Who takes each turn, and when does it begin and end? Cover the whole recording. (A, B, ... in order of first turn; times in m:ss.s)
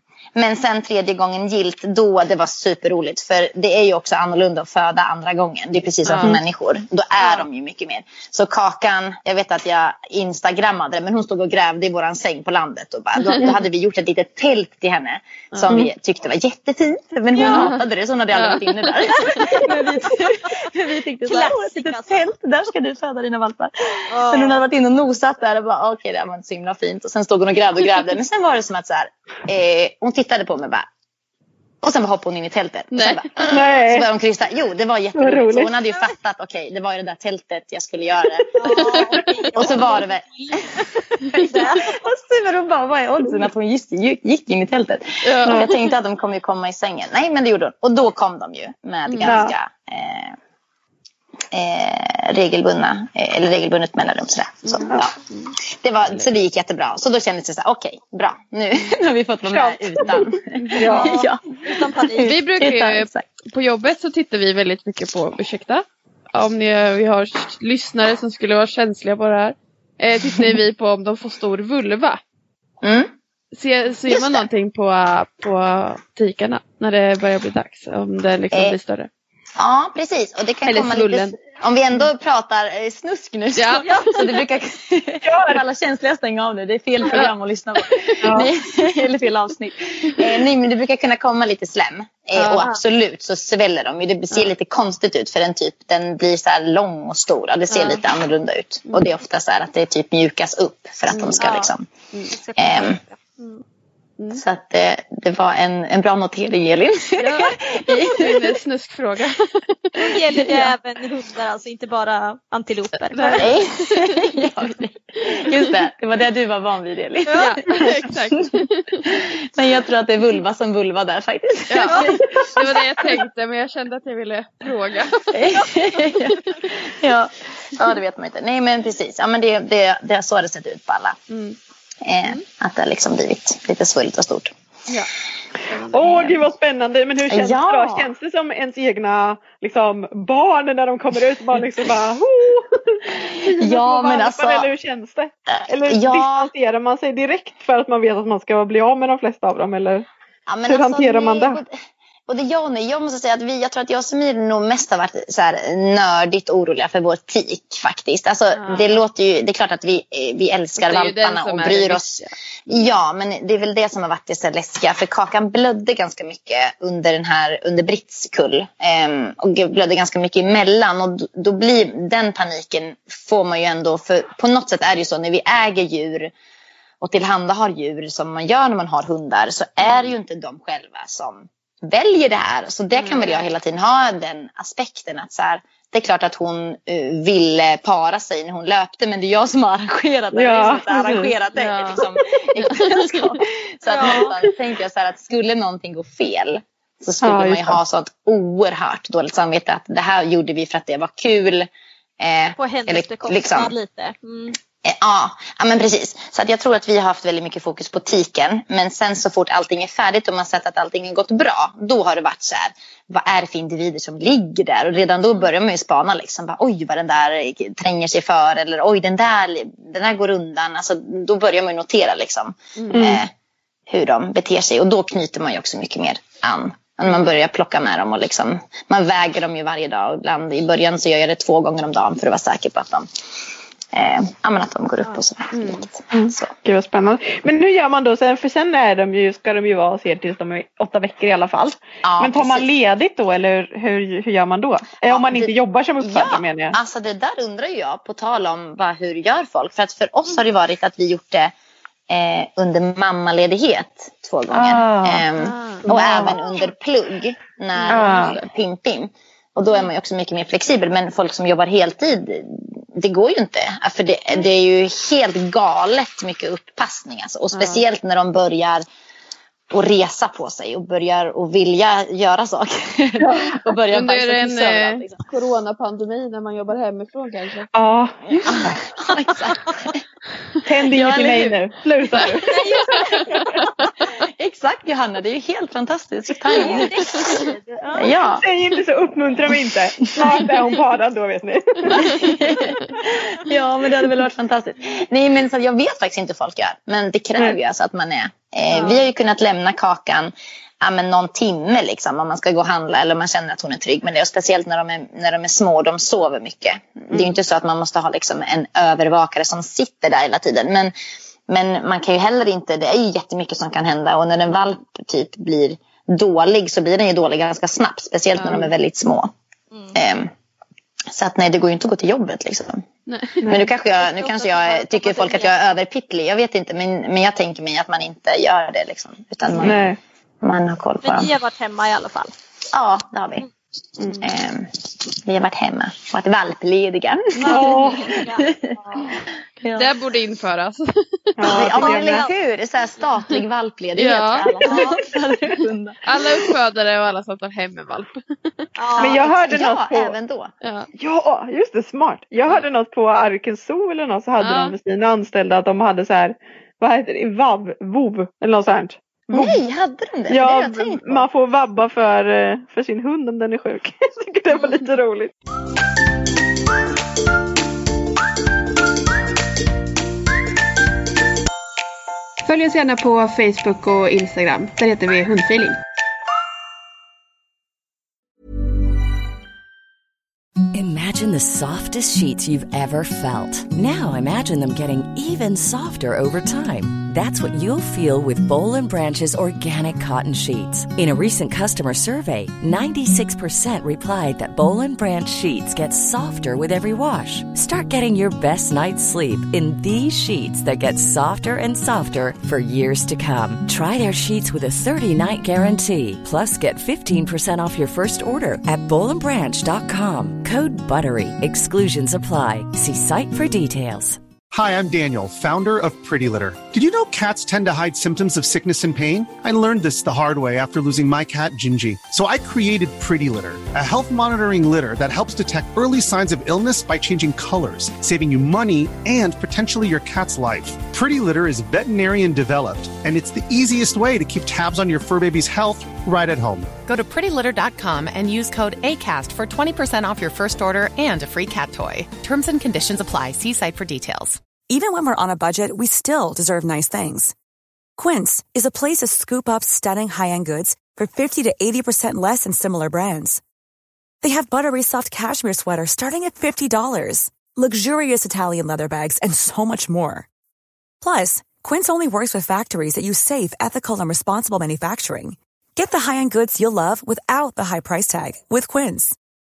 0:00.4-0:30.9 A
0:06.0-0:06.4 B
0:07.2-0:07.4 C
0:17.4-0:17.7 C
0:17.4-0:17.8 B
0:18.4-0:19.4 B
0:19.3-0:19.6 C
0:21.2-0:22.2 C
0:24.1-0:24.6 C
0:31.8-0:40.6 A
0:32.9-0:33.3 B
0:33.4-0:34.1 D
0:35.2-0:35.7 D
0:38.6-0:41.0 C
0:38.8-0:39.2 B
0:41.3-0:50.3 A
0:45.2-0:45.8 B
0:49.0-0:49.4 B
0:49.2-0:49.5 D
0:51.5-0:55.1 A
0:54.6-0:55.6 B
0:55.6-1:03.3 A
0:59.5-1:01.1 D
1:00.9-1:02.3 C
1:02.2-1:12.2 B
1:12.8-1:13.1 A
1:13.5-1:19.1 B
1:14.1-1:14.4 A
1:18.5-1:18.8 A
1:19.6-1:41.9 A
1:20.6-1:21.4 B
1:23.6-1:24.2 B
1:23.8-1:24.1 C
1:25.2-1:25.6 D
1:28.0-1:28.4 B
1:28.2-1:28.5 D
1:32.4-1:32.6 B
1:37.7-1:38.0 B
1:41.1-1:41.4 B
1:41.4-1:41.7 C
1:42.3-1:43.6 C
1:42.6-1:43.0 A
1:44.3-1:48.6 A
1:47.9-1:50.5 B
1:50.0-1:53.5 C
1:50.4-1:50.7 A
1:53.1-1:54.3 B
1:53.3-2:03.2 A
1:55.3-1:55.7 B
1:57.3-1:57.6 C
1:57.4-1:59.2 B
2:01.7-2:06.7 B
2:01.8-2:02.2 C
2:05.3-2:11.2 A
2:11.3-2:11.6 B
2:12.0-2:14.5 A
2:15.7-2:16.4 B
2:15.9-2:30.1 D
2:17.3-2:18.1 A
2:23.5-2:24.7 A
2:25.6-2:26.5 A
2:30.5-2:31.8 A
2:30.7-2:31.6 D
2:32.3-2:56.3 A
2:38.6-2:38.9 B
2:40.8-2:42.3 B
2:57.0-3:21.7 A
3:03.0-3:03.3 B
3:10.3-3:11.3 D
3:11.6-3:12.0 B
3:12.6-3:13.4 B
3:13.9-3:14.3 C
3:17.2-3:17.8 D
3:22.2-3:23.7 A
3:22.6-3:24.6 C
3:24.8-3:43.3 A
3:42.8-3:43.1 B
3:42.9-3:43.2 D
3:43.9-3:53.1 A
3:53.9-3:56.5 A
3:55.5-3:55.9 B
3:56.1-4:06.8 D
4:02.0-4:02.7 A
4:05.1-4:11.5 A
4:12.1-4:28.8 A
4:14.5-4:15.3 D
4:15.8-4:16.4 D
4:17.9-4:18.4 B
4:17.9-4:18.4 D
4:27.5-4:27.8 B
4:29.7-4:35.2 A
4:33.2-4:37.7 B
4:37.7-4:38.7 D
4:38.5-4:40.0 A
4:40.6-4:42.6 D
4:40.9-4:41.5 A
4:40.9-4:41.4 B
4:42.2-4:43.6 B
4:42.4-4:43.9 C
4:44.2-4:48.4 A
4:46.5-4:48.2 C
4:48.1-4:52.4 D
4:51.9-5:10.9 A
5:11.5-5:19.3 A
5:18.4-5:18.7 B
5:19.9-5:20.3 A
5:21.1-5:22.8 A
5:23.1-5:23.6 B
5:23.4-5:29.8 A
5:24.0-5:25.7 C
5:29.6-5:30.0 D
5:30.4-5:31.3 A
5:31.0-5:32.3 C
5:32.7-5:33.4 A
5:34.2-5:39.9 A
5:37.4-5:37.8 B
5:37.4-5:38.1 D
5:37.5-5:39.1 C
5:39.7-5:41.7 B
5:41.4-5:42.3 D
5:41.4-5:46.5 A
5:41.8-5:42.3 C
5:44.0-5:44.5 B
5:44.6-5:44.9 D
5:44.6-5:45.0 C
5:46.0-5:48.6 B
5:48.8-5:49.3 C
5:49.0-5:50.5 A
5:49.0-5:50.1 D
5:50.6-5:50.9 B
5:51.0-5:59.6 D
5:54.4-5:54.7 B
5:59.3-6:01.3 A
6:00.3-6:05.3 D
6:12.4-6:15.8 E
6:20.7-6:54.2 F
6:54.5-7:16.7 G
7:16.9-7:24.4 H
7:24.7-7:27.3 I
7:28.0-7:33.4 I
7:34.2-7:40.3 I
7:41.0-7:49.2 I